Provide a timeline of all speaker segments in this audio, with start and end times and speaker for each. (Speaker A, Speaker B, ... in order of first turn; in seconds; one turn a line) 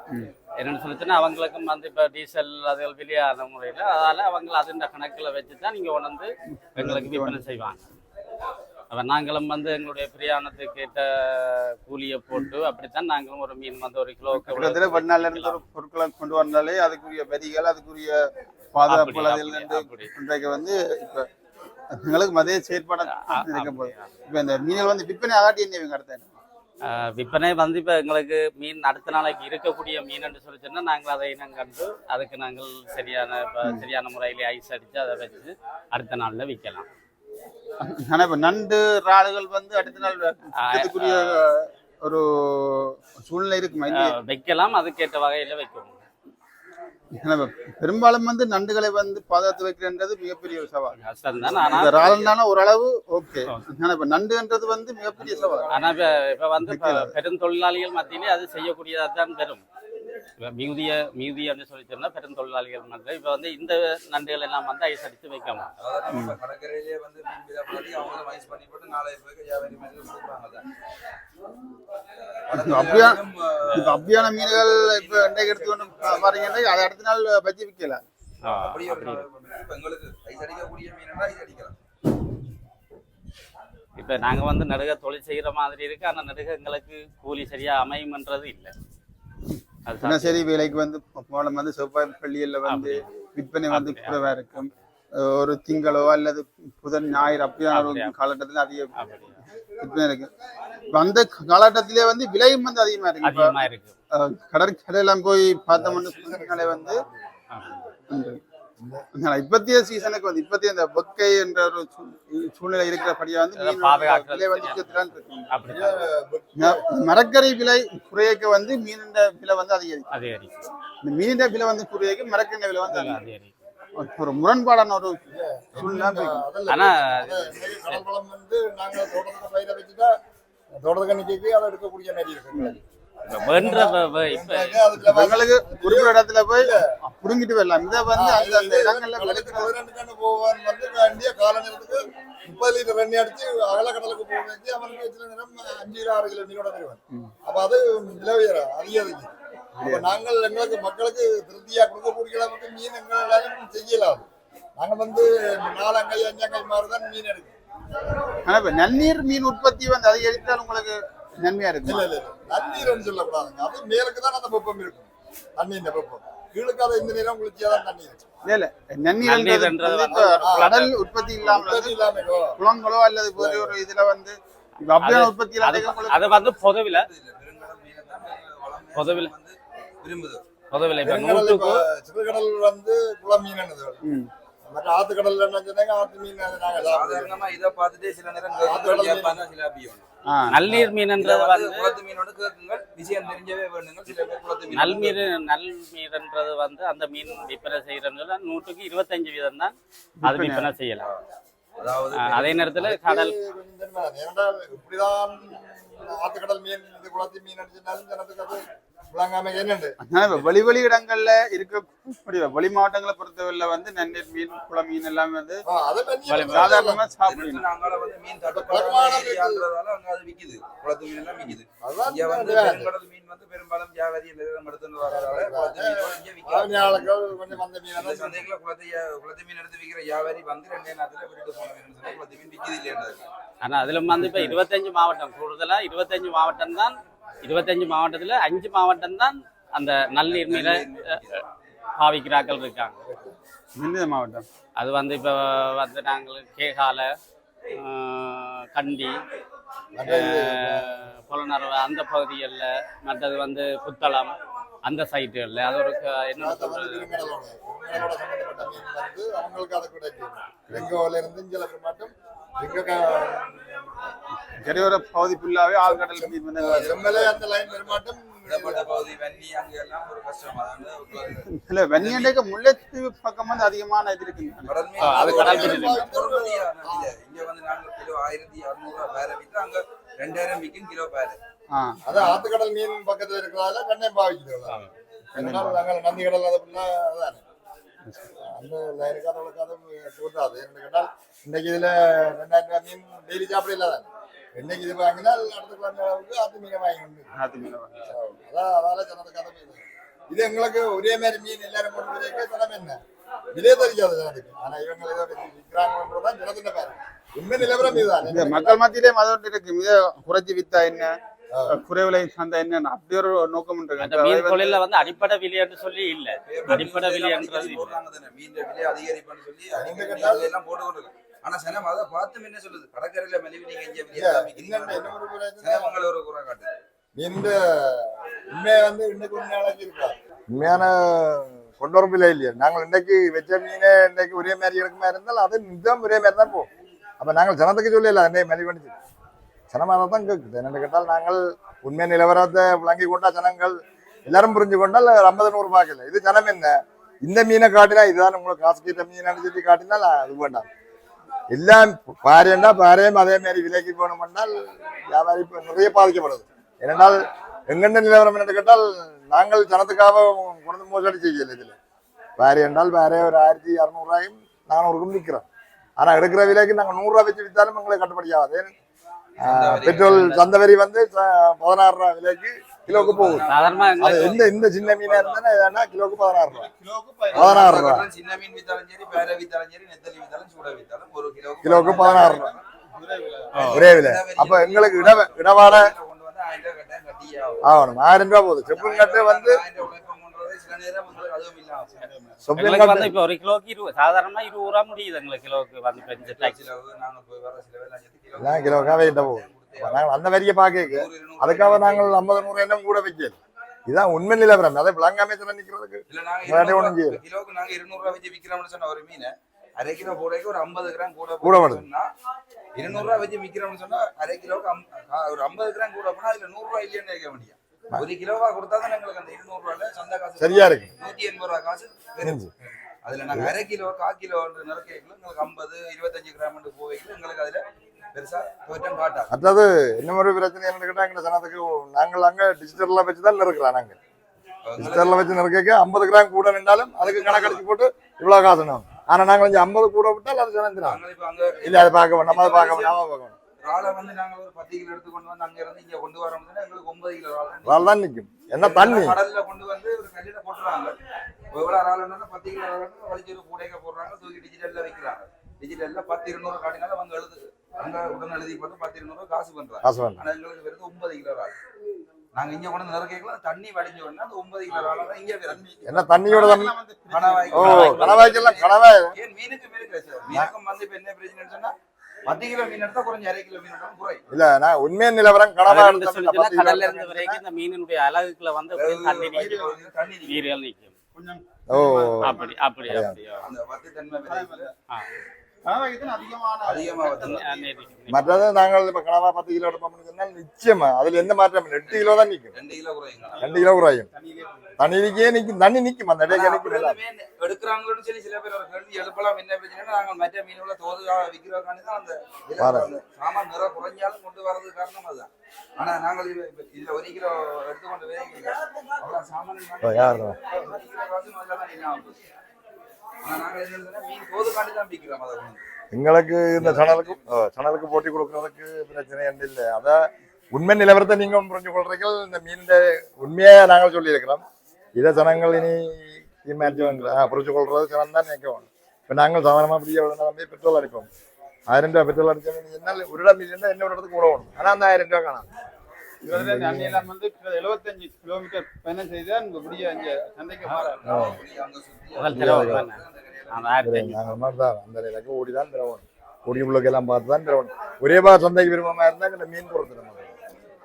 Speaker A: 0.6-7.8
Speaker B: 6.8-7.4
Speaker A: 8.9-15.6
Speaker B: 14.3-21.3
Speaker A: 18.9-20.1
Speaker B: 21.9-26.4
Speaker A: 23.1-24.1
Speaker A: 26.8-36.9
Speaker B: 37.8-44.1
Speaker A: 40.6-41.4
Speaker A: 43.9-46.0
Speaker B: 47.1-55.8
Speaker A: 51.0-52.1
Speaker C: 51.6-52.3
Speaker C: 55.2-56.3
Speaker A: 55.7-59.6
Speaker B: 56.6-57.1
Speaker A: 60.4-65.7
Speaker C: 65.8-70.6
Speaker B: 66.1-66.4
Speaker C: 72.5-76.8
Speaker B: 72.5-73.2
Speaker B: 73.7-78.0
Speaker A: 78.4-79.2
Speaker C: 78.5-81.7
Speaker A: 84.0-88.7
Speaker B: 89.5-98.9
Speaker A: 89.8-90.4
Speaker A: 92.7-93.1
Speaker A: 93.7-94.7
Speaker A: 97.7-98.1
Speaker A: 99.0-99.4
Speaker B: 99.8-100.3
Speaker B: 100.9-103.5
Speaker A: 103.2-104.0
Speaker B: 104.1-107.0
Speaker D: 105.7-107.2
Speaker A: 107.5-107.8
Speaker B: 108.1-108.4
Speaker D: 108.8-109.0
Speaker B: 109.1-115.5
Speaker A: 113.6-115.0
Speaker A: 115.5-116.1
Speaker D: 115.7-116.8
Speaker B: 116.6-120.1
Speaker A: 120.1-120.5
Speaker B: 121.0-123.2
Speaker A: 122.9-123.5
Speaker B: 124.0-125.2
Speaker D: 125.3-130.2
Speaker B: 125.7-126.4
Speaker A: 126.7-128.0
Speaker D: 130.7-136.8
Speaker A: 133.3-134.8
Speaker B: 135.0-139.7
Speaker D: 138.1-149.3
Speaker B: 149.8-150.1
Speaker D: 149.8-157.5
Speaker B: 158.4-162.1
Speaker D: 161.8-168.3
Speaker B: 168.4-172.0
Speaker A: 169.2-170.9
Speaker D: 170.1-172.6
Speaker B: 172.6-176.5
Speaker D: 173.3-173.7
Speaker A: 175.0-177.1
Speaker C: 176.8-180.4
Speaker A: 178.9-179.3
Speaker A: 180.7-181.8
Speaker D: 181.0-184.0
Speaker B: 184.0-184.3
Speaker D: 184.7-187.5
Speaker C: 186.8-190.0
Speaker D: 188.6-189.4
Speaker B: 190.3-190.9
Speaker A: 190.5-191.9
Speaker C: 191.2-195.2
Speaker A: 194.7-201.1
Speaker B: 200.2-200.7
Speaker C: 201.8-202.7
Speaker A: 202.2-203.3
Speaker D: 202.8-209.9
Speaker B: 210.1-215.6
Speaker D: 215.7-217.0
Speaker B: 216.3-217.6
Speaker C: 217.2-227.1
Speaker D: 218.5-219.6
Speaker D: 221.8-222.9
Speaker D: 225.1-228.5
Speaker C: 227.9-233.3
Speaker A: 233.6-241.2
Speaker B: 234.2-234.6
Speaker C: 240.3-241.4
Speaker A: 242.0-242.9
Speaker D: 243.0-243.3
Speaker B: 243.8-244.4
Speaker A: 244.8-247.1
Speaker A: 247.7-249.2
Speaker D: 249.9-251.0
Speaker A: 250.1-254.3
Speaker A: 254.8-257.2
Speaker D: 256.4-263.6
Speaker B: 264.6-267.3
Speaker D: 265.9-269.1
Speaker C: 266.6-272.3
Speaker B: 271.5-274.8
Speaker C: 274.6-281.4
Speaker A: 275.0-276.1
Speaker D: 275.0-277.1
Speaker B: 281.7-282.0
Speaker D: 282.1-287.4
Speaker B: 285.3-285.8
Speaker B: 288.0-288.3
Speaker D: 288.4-297.3
Speaker B: 297.4-298.0
Speaker D: 298.1-303.0
Speaker D: 303.5-308.8
Speaker B: 307.8-311.1
Speaker D: 311.5-311.8
Speaker B: 311.7-314.8
Speaker A: 314.0-317.9
Speaker C: 316.4-326.7
Speaker D: 319.7-320.5
Speaker D: 324.1-325.9
Speaker D: 327.1-336.7
Speaker D: 337.2-338.9
Speaker D: 339.7-350.7
Speaker D: 351.5-361.8
Speaker D: 362.4-365.5
Speaker D: 366.0-368.7
Speaker C: 369.4-370.4
Speaker D: 369.4-376.7
Speaker C: 372.9-375.5
Speaker A: 373.5-374.4
Speaker B: 376.5-377.9
Speaker C: 377.3-382.5
Speaker D: 377.3-378.1
Speaker D: 381.6-382.5
Speaker B: 381.8-383.8
Speaker C: 383.6-387.6
Speaker D: 383.7-385.9
Speaker D: 387.6-389.6
Speaker C: 388.7-391.9
Speaker B: 392.0-392.4
Speaker D: 392.4-393.1
Speaker A: 392.6-396.5
Speaker C: 396.2-400.0
Speaker D: 398.4-407.2
Speaker C: 400.8-402.2
Speaker C: 406.1-412.1
Speaker D: 411.4-411.9
Speaker C: 412.8-422.4
Speaker D: 420.4-420.9
Speaker D: 422.2-422.5
Speaker C: 423.0-427.6
Speaker C: 428.1-429.3
Speaker D: 429.3-433.9
Speaker C: 434.6-435.3
Speaker D: 434.8-441.0
Speaker C: 437.0-437.6
Speaker C: 440.8-442.9
Speaker D: 441.6-443.3
Speaker C: 443.6-447.9
Speaker D: 447.6-449.2
Speaker C: 448.5-450.9
Speaker C: 451.5-461.5
Speaker D: 459.8-460.2
Speaker C: 462.3-465.6
Speaker B: 465.5-468.4
Speaker D: 465.8-466.7
Speaker C: 467.1-471.7
Speaker D: 467.5-469.1
Speaker C: 472.2-474.2
Speaker D: 474.3-477.4
Speaker A: 475.6-479.7
Speaker C: 478.7-480.5
Speaker B: 479.3-479.8
Speaker A: 480.3-480.9
Speaker B: 481.1-482.5
Speaker D: 481.7-482.4
Speaker A: 482.2-483.4
Speaker D: 482.9-483.1
Speaker C: 483.4-484.7
Speaker B: 484.3-484.7
Speaker B: 485.6-487.7
Speaker C: 486.6-487.4
Speaker A: 487.2-488.4
Speaker D: 488.1-492.5
Speaker C: 491.9-493.4
Speaker B: 493.3-494.6
Speaker D: 493.4-494.1
Speaker D: 494.8-497.0
Speaker C: 496.3-512.2
Speaker D: 502.6-502.9
Speaker D: 509.8-510.4
Speaker C: 513.2-515.6
Speaker D: 515.9-524.4
Speaker C: 516.6-517.2
Speaker D: 525.0-531.1
Speaker B: 526.6-527.1
Speaker D: 531.7-535.5
Speaker B: 536.2-541.0
Speaker D: 536.3-537.0
Speaker C: 540.6-543.9
Speaker D: 541.0-541.4
Speaker A: 542.2-543.0
Speaker D: 542.3-542.9
Speaker A: 543.5-544.1
Speaker D: 543.8-550.3